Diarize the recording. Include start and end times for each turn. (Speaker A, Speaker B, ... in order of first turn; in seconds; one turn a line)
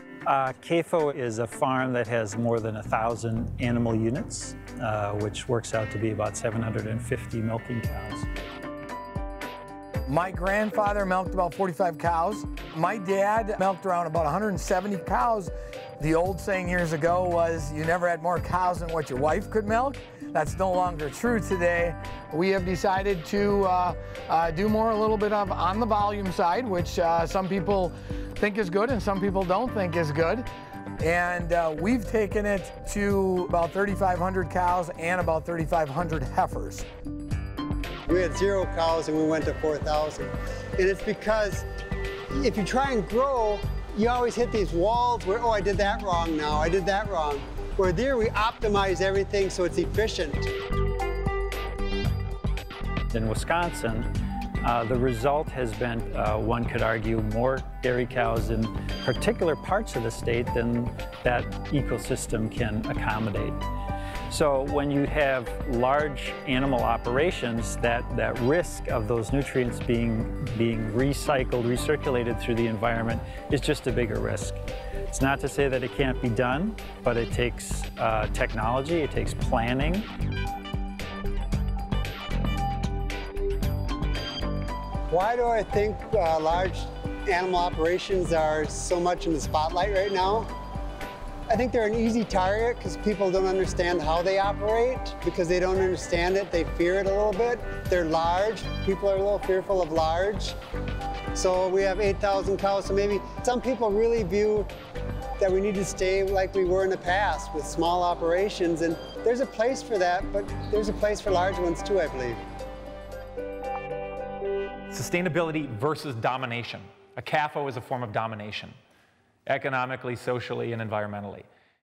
Speaker A: 0.2-8.3
Speaker B: 10.1-30.5
Speaker B: 31.0-36.8
Speaker C: 38.0-41.6
Speaker C: 42.3-50.5
Speaker A: 53.1-54.1
Speaker A: 54.6-63.6
Speaker A: 64.3-80.1
Speaker C: 85.1-90.5
Speaker C: 91.5-100.5
Speaker C: 101.3-104.7
Speaker C: 105.4-112.4
Speaker D: 114.9-118.8
Speaker D: 119.5-121.5